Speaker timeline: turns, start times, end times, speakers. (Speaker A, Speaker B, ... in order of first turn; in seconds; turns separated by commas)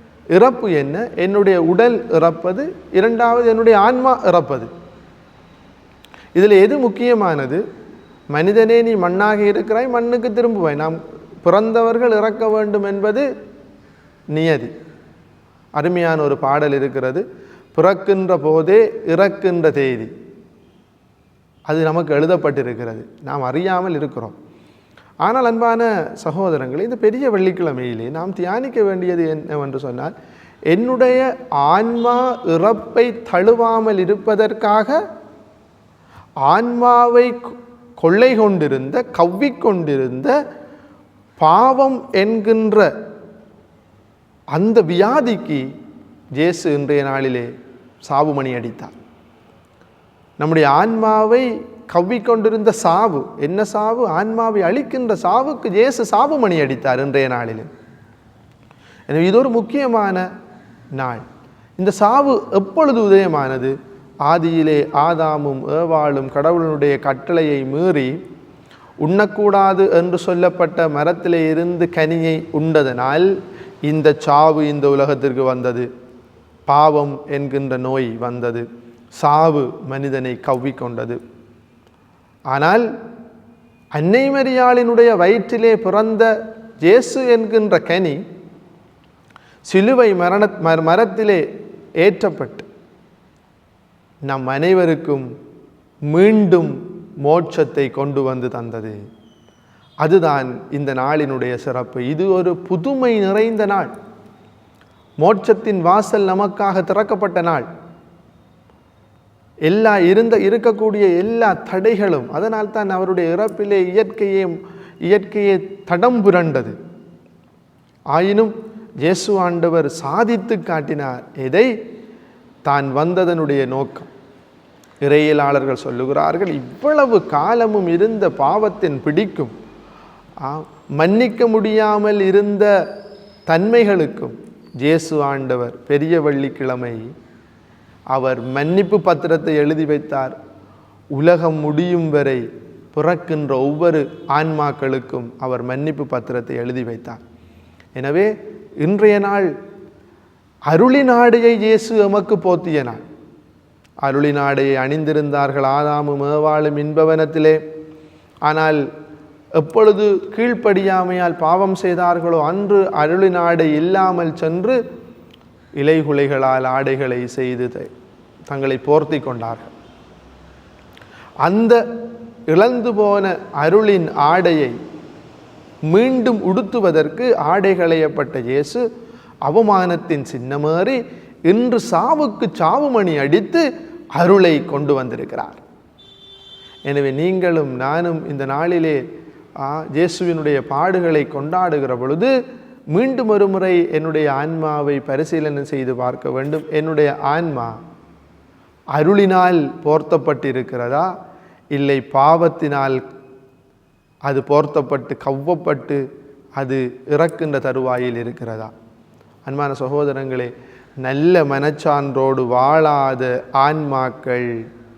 Speaker A: 0.3-4.7, Speaker A: 6.3-7.6, Speaker A: 8.3-13.3, Speaker A: 14.3-14.7, Speaker A: 15.8-17.2, Speaker A: 17.7-20.1, Speaker A: 21.7-24.3, Speaker A: 25.2-30.1, Speaker A: 30.7-35.0, Speaker A: 36.5-40.3, Speaker A: 41.4-42.9, Speaker A: 44.5-45.6, Speaker A: 46.4-47.5, Speaker A: 48.0-49.0, Speaker A: 50.4-57.7, Speaker A: 59.1-60.3, Speaker A: 60.9-61.2, Speaker A: 61.8-63.7, Speaker A: 64.2-68.2, Speaker A: 69.0-73.3, Speaker A: 73.8-75.9, Speaker A: 76.7-78.6, Speaker A: 79.2-81.2, Speaker A: 82.5-82.8, Speaker A: 83.9-86.3, Speaker A: 86.8-88.2, Speaker A: 89.7-91.4, Speaker A: 92.0-92.7, Speaker A: 94.3-95.2, Speaker A: 96.1-99.0, Speaker A: 100.0-103.9, Speaker A: 105.2-107.7, Speaker A: 109.7-114.5, Speaker A: 115.1-116.7, Speaker A: 118.1-121.7, Speaker A: 122.7-124.1, Speaker A: 125.0-129.5, Speaker A: 130.4-132.7, Speaker A: 133.5-137.1, Speaker A: 138.1-140.3, Speaker A: 141.1-147.2, Speaker A: 148.0-149.5, Speaker A: 150.7-153.0, Speaker A: 154.0-157.6, Speaker A: 158.4-158.8, Speaker A: 159.6-164.8, Speaker A: 165.8-167.9, Speaker A: 168.5-169.7, Speaker A: 171.4-171.8, Speaker A: 172.5-174.8, Speaker A: 175.9-178.8, Speaker A: 179.4-183.6, Speaker A: 184.2-185.6, Speaker A: 186.9-189.0, Speaker A: 189.6-192.3, Speaker A: 192.9-197.7, Speaker A: 198.9-201.1, Speaker A: 201.7-203.0, Speaker A: 204.3-206.0, Speaker A: 206.6-208.7, Speaker A: 209.4-214.5